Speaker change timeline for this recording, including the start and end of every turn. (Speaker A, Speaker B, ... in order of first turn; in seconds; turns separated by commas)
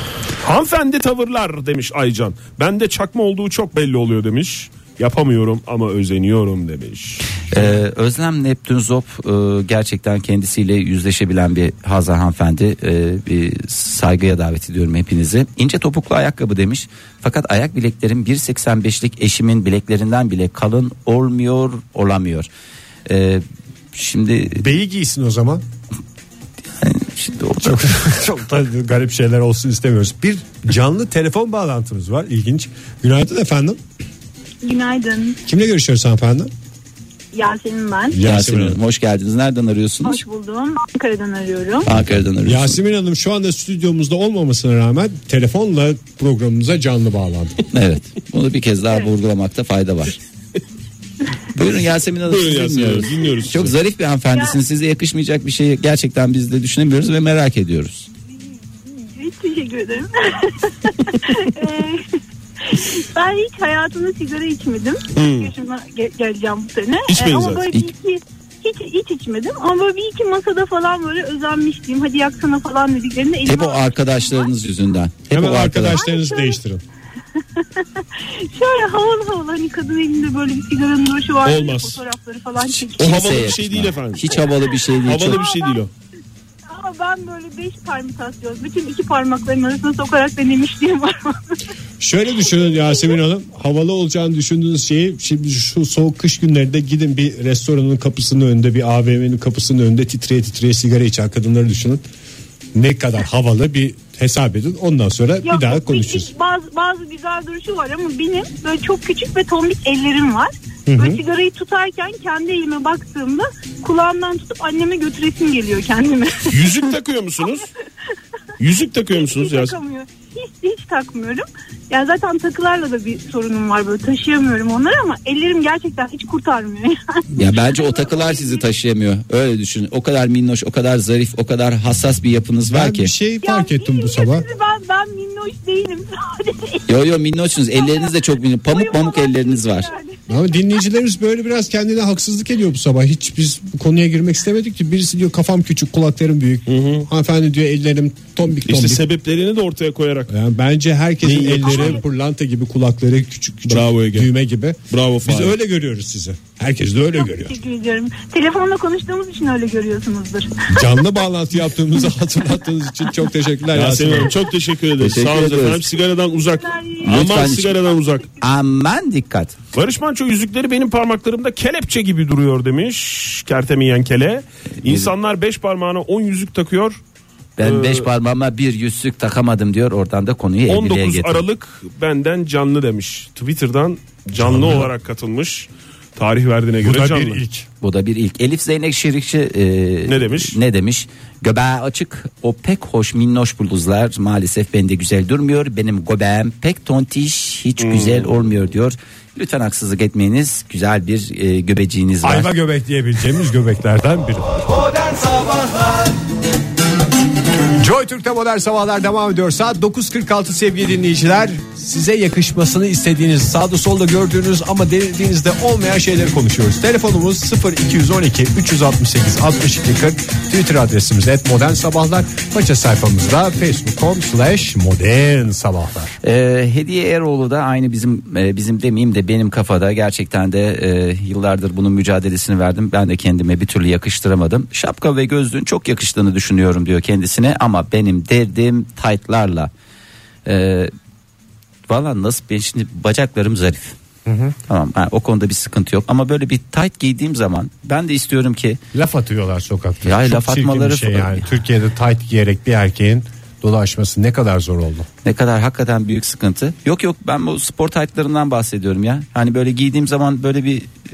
Speaker A: 0.4-7.8, Speaker B: 7.5-22.5, Speaker B: 23.1-24.7, Speaker C: 24.6-25.6, Speaker B: 26.8-27.9, Speaker C: 27.6-33.8, Speaker D: 34.6-35.4, Speaker C: 35.5-36.5, Speaker D: 37.3-38.2, Speaker C: 38.1-38.8, Speaker B: 38.2-40.2, Speaker D: 40.0-41.9, Speaker B: 41.8-42.8, Speaker C: 41.9-47.6, Speaker B: 47.7-50.2, Speaker B: 51.5-58.1, Speaker A: 52.3-53.8, Speaker D: 58.8-62.2, Speaker D: 62.7-74.5, Speaker A: 65.1-65.5, Speaker A: 67.1-67.8, Speaker B: 73.4-76.0, Speaker C: 75.3-76.8, Speaker D: 75.9-76.6, Speaker D: 77.6-83.2, Speaker A: 81.4-82.0, Speaker B: 82.6-85.4, Speaker A: 83.0-84.5, Speaker A: 85.0-85.9, Speaker D: 85.2-85.8, Speaker D: 86.7-91.5, Speaker C: 92.0-102.0, Speaker C: 102.7-106.3, Speaker D: 105.4-116.9, Speaker C: 110.9-111.2, Speaker A: 116.5-117.7, Speaker A: 118.6-119.8, Speaker D: 119.1-128.6, Speaker B: 127.3-133.1, Speaker C: 132.7-134.5, Speaker D: 133.4-136.9, Speaker B: 136.9-139.9, Speaker D: 137.7-140.2, Speaker C: 140.3-149.0, Speaker A: 146.7-147.1, Speaker A: 148.6-150.3, Speaker C: 150.3-157.6, Speaker A: 151.2-152.0, Speaker D: 151.6-152.0, Speaker A: 153.7-154.3, Speaker A: 154.9-155.5, Speaker D: 157.2-161.1, Speaker C: 160.7-164.3, Speaker A: 163.7-168.3, Speaker B: 165.0-165.8, Speaker D: 166.6-167.0, Speaker B: 167.0-167.8, Speaker B: 168.4-169.5, Speaker A: 169.7-177.0, Speaker B: 174.8-175.1, Speaker B: 177.6-181.4, Speaker A: 177.6-178.1, Speaker A: 180.7-187.4, Speaker C: 184.4-184.9, Speaker C: 186.8-187.7, Speaker B: 187.8-202.5, Speaker A: 190.1-190.6, Speaker A: 197.8-198.3, Speaker C: 202.2-204.7, Speaker C: 207.8-226.1, Speaker B: 226.2-239.7, Speaker B: 240.4-240.9, Speaker B: 241.9-243.9, Speaker C: 244.2-244.5, Speaker B: 244.7-248.8, Speaker C: 248.9-255.1, Speaker B: 250.0-251.5, Speaker B: 255.2-260.9